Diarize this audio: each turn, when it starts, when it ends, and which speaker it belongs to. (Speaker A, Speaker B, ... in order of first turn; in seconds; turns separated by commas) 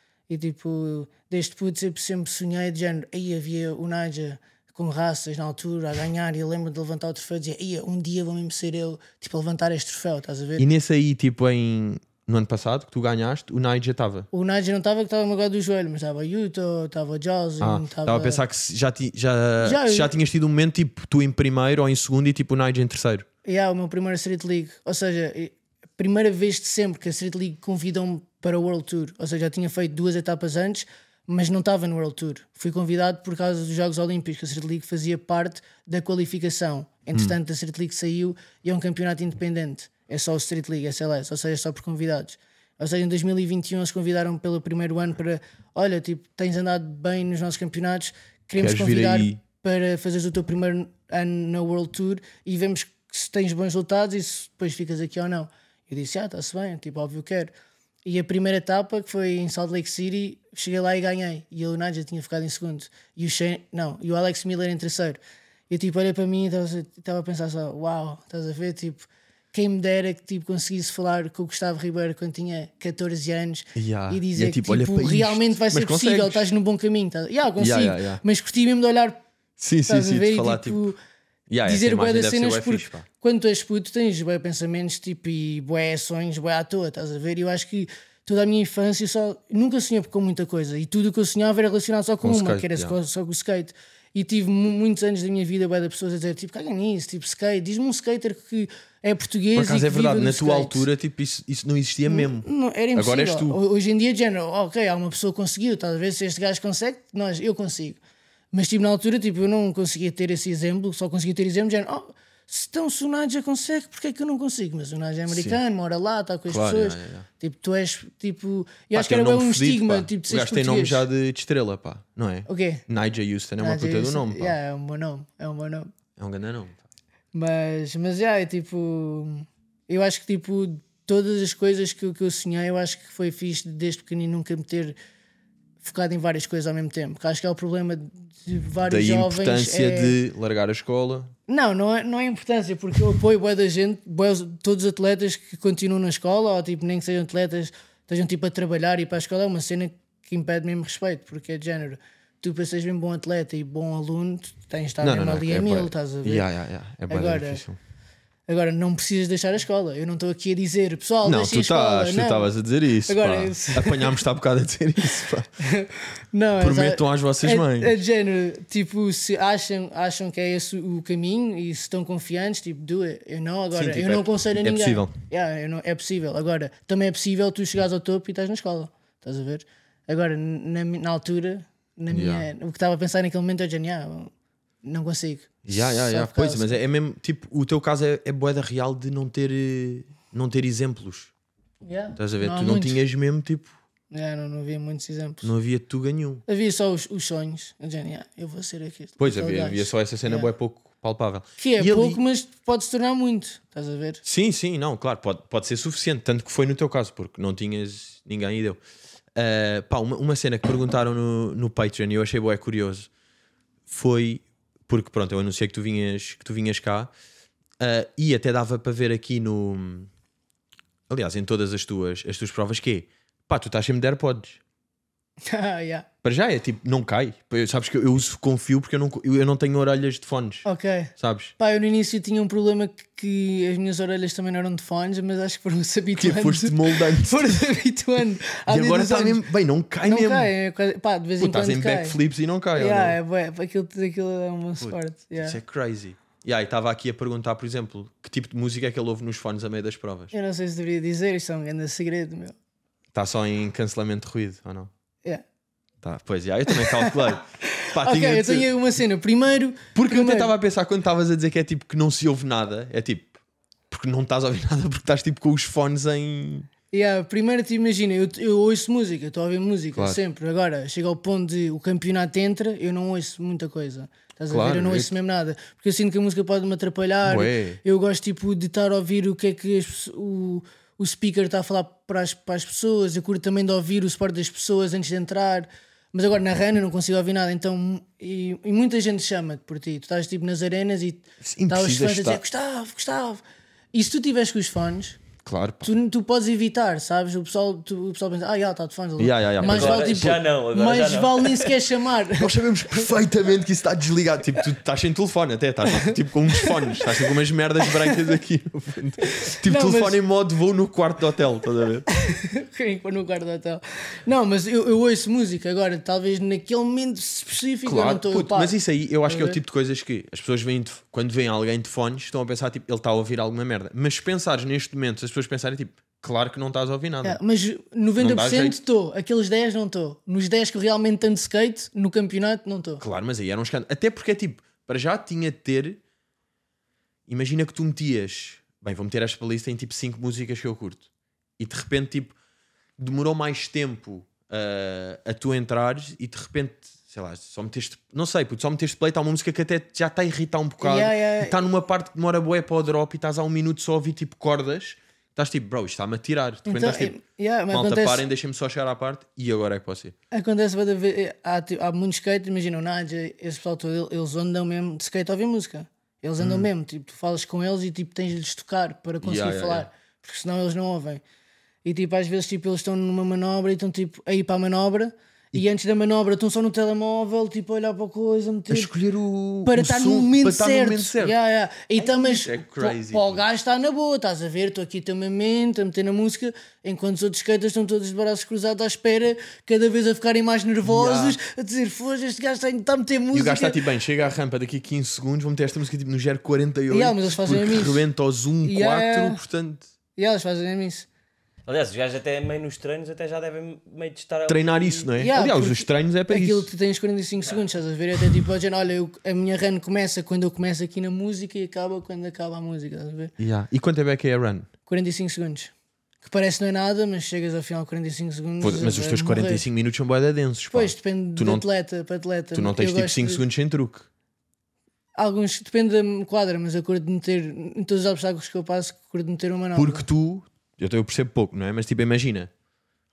Speaker A: 0.3-10.7, Speaker B: 10.6-14.3, Speaker A: 14.3-18.4, Speaker B: 17.6-23.3, Speaker A: 19.6-20.1, Speaker A: 23.4-57.5, Speaker B: 48.6-49.4, Speaker A: 58.0-79.2, Speaker B: 73.8-76.5, Speaker B: 77.6-78.2, Speaker B: 79.6-80.9, Speaker A: 79.9-81.0, Speaker B: 81.5-83.1, Speaker A: 81.6-100.8, Speaker B: 92.2-93.0, Speaker B: 99.5-103.6, Speaker A: 102.1-108.0, Speaker A: 108.5-121.1, Speaker B: 115.3-115.6, Speaker B: 116.5-117.3, Speaker B: 118.9-124.6, Speaker A: 122.5-122.8, Speaker A: 123.6-125.9, Speaker B: 126.2-126.8, Speaker A: 127.3-135.0, Speaker A: 135.8-140.2, Speaker B: 138.8-141.3, Speaker A: 141.5-156.5, Speaker B: 155.0-157.8, Speaker A: 157.1-157.6, Speaker A: 158.5-162.5, Speaker B: 161.2-165.5, Speaker A: 163.1-164.2, Speaker A: 165.6-184.3, Speaker B: 166.6-168.0, Speaker B: 173.7-175.2, Speaker B: 182.1-182.5, Speaker A: 184.8-186.8, Speaker B: 185.7-191.3, Speaker A: 191.8-193.0, Speaker B: 192.2-193.7, Speaker A: 194.1-195.5, Speaker B: 195.4-196.4, Speaker A: 196.5-200.5, Speaker B: 199.2-202.2, Speaker A: 201.6-204.2, Speaker B: 204.2-208.8, Speaker B: 209.3-213.1, Speaker B: 213.9-217.1, Speaker B: 217.8-220.1, Speaker B: 221.1-224.6, Speaker A: 225.5-226.1, Speaker B: 226.2-230.7, Speaker A: 230.7-239.4, Speaker B: 231.2-231.5, Speaker B: 236.2-237.6, Speaker B: 238.7-240.5, Speaker A: 240.0-242.2, Speaker B: 241.4-243.2, Speaker A: 242.8-245.6, Speaker B: 244.8-250.3, Speaker A: 250.3-252.6, Speaker B: 253.1-254.9, Speaker B: 256.0-258.7, Speaker A: 256.7-260.5, Speaker B: 259.9-263.4, Speaker B: 263.9-266.7, Speaker A: 266.9-293.4, Speaker B: 274.5-275.1, Speaker B: 277.2-277.8, Speaker B: 291.4-292.4, Speaker A: 293.9-295.2, Speaker B: 295.4-295.9, Speaker A: 295.8-303.0, Speaker B: 299.2-300.4, Speaker C: 299.6-301.8, Speaker B: 302.4-312.1, Speaker A: 306.6-307.0, Speaker A: 309.2-310.2, Speaker A: 312.1-318.8, Speaker B: 317.9-327.4, Speaker A: 319.3-319.6, Speaker A: 327.2-333.0, Speaker B: 328.2-328.8, Speaker B: 333.0-336.0, Speaker B: 337.3-341.1, Speaker B: 341.6-342.4, Speaker B: 343.0-357.1, Speaker A: 350.8-351.6, Speaker A: 356.7-358.2, Speaker B: 357.7-360.1, Speaker A: 360.3-371.2, Speaker B: 366.4-366.7, Speaker B: 369.2-369.9, Speaker A: 371.8-378.9, Speaker B: 378.7-381.4, Speaker A: 379.7-393.8, Speaker B: 382.0-383.4, Speaker B: 390.9-391.4, Speaker B: 393.3-399.9, Speaker A: 396.9-398.1, Speaker A: 398.6-399.4, Speaker A: 400.2-401.1, Speaker C: 401.7-405.1, Speaker B: 404.5-406.7, Speaker A: 405.2-413.3, Speaker B: 413.4-414.7, Speaker A: 414.9-415.7, Speaker A: 416.2-419.6, Speaker B: 418.6-421.7, Speaker A: 420.7-423.4, Speaker B: 422.5-424.1, Speaker A: 425.2-430.1, Speaker B: 429.8-432.5